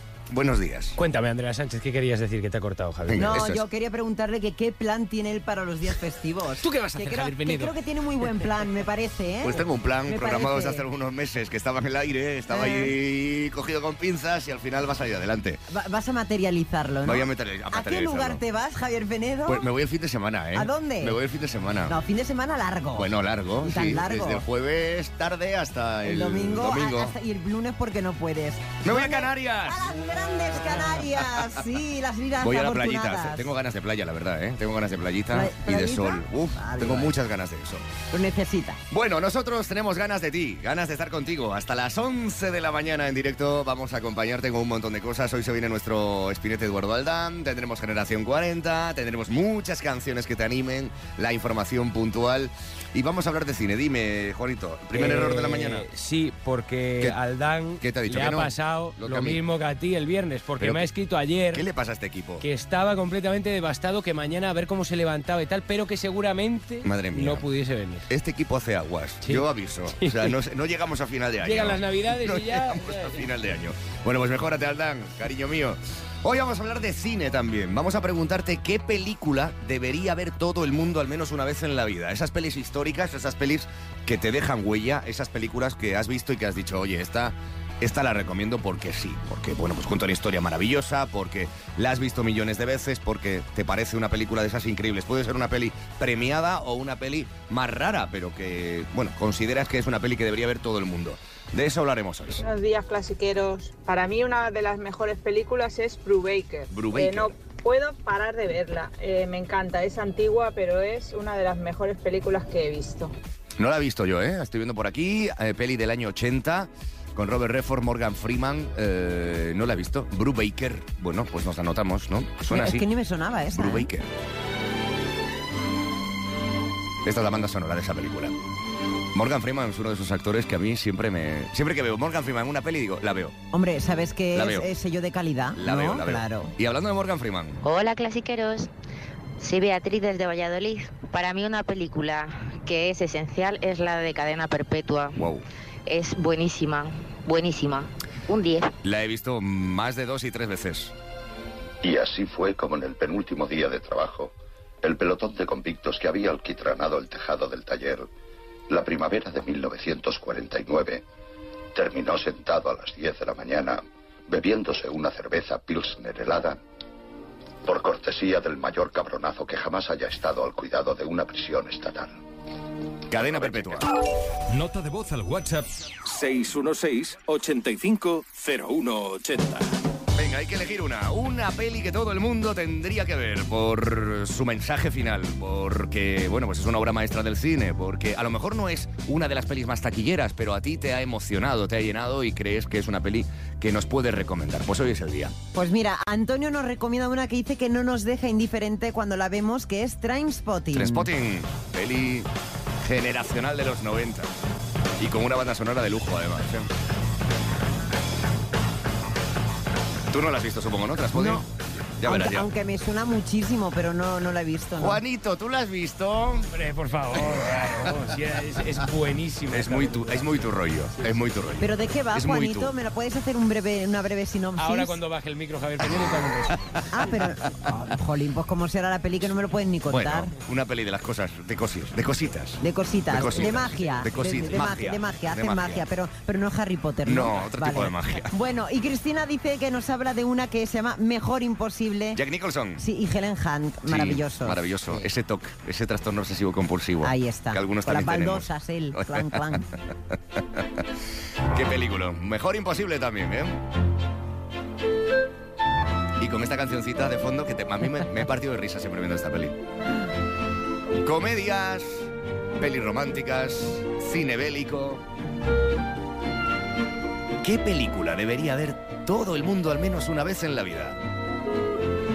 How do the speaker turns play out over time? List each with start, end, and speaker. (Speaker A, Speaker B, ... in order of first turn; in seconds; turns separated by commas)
Speaker A: 0.3-1.0, Speaker B: 0.9-3.3, Speaker A: 3.1-3.7, Speaker C: 3.1-10.8, Speaker B: 6.6-7.8, Speaker A: 9.4-15.6, Speaker C: 12.5-12.9, Speaker C: 15.7-19.7, Speaker A: 17.0-18.4, Speaker A: 19.4-21.9, Speaker C: 20.5-21.2, Speaker C: 21.9-23.1, Speaker A: 22.9-27.1, Speaker C: 23.6-24.4, Speaker C: 26.0-33.5, Speaker A: 28.8-29.9, Speaker A: 30.8-31.6, Speaker A: 32.4-37.9, Speaker C: 35.3-37.1, Speaker C: 38.1-38.8, Speaker A: 38.9-55.9, Speaker B: 54.9-61.6, Speaker A: 57.8-59.4, Speaker A: 60.6-60.9, Speaker A: 61.5-62.4, Speaker B: 62.4-68.1, Speaker A: 66.8-67.5, Speaker A: 68.1-102.4, Speaker B: 69.2-70.3, Speaker B: 71.4-73.3, Speaker D: 102.4-113.1, Speaker A: 106.7-107.3, Speaker A: 113.6-122.9, Speaker C: 122.5-123.9, Speaker A: 123.5-124.1, Speaker A: 127.0-128.4, Speaker A: 129.1-133.4, Speaker C: 133.5-136.5, Speaker A: 134.3-134.7, Speaker A: 135.6-137.6, Speaker E: 137.6-138.7, Speaker E: 139.4-145.2, Speaker A: 145.2-145.4, Speaker E: 145.9-148.8, Speaker A: 148.8-150.9, Speaker F: 151.8-158.1, Speaker F: 158.7-161.0, Speaker F: 161.8-166.6, Speaker F: 167.7-172.2, Speaker A: 173.1-173.9, Speaker G: 174.5-179.7, Speaker A: 180.1-195.3, Speaker C: 195.5-201.1, Speaker A: 200.7-204.3, Speaker A: 205.0-206.7, Speaker A: 210.1-212.5, Speaker C: 211.1-211.4, Speaker C: 212.0-215.0, Speaker A: 214.8-216.5, Speaker B: 216.5-220.5, Speaker A: 217.1-218.0, Speaker A: 219.5-222.7, Speaker C: 221.6-225.0, Speaker B: 224.6-226.6, Speaker C: 226.9-230.3, Speaker A: 229.9-235.8, Speaker C: 232.6-242.2, Speaker A: 237.1-238.3, Speaker A: 242.1-242.8, Speaker C: 242.8-245.0, Speaker A: 243.9-250.9, Speaker C: 247.0-249.7, Speaker A: 251.5-253.6, Speaker A: 256.2-259.6, Speaker A: 261.0-265.0, Speaker A: 267.4-271.0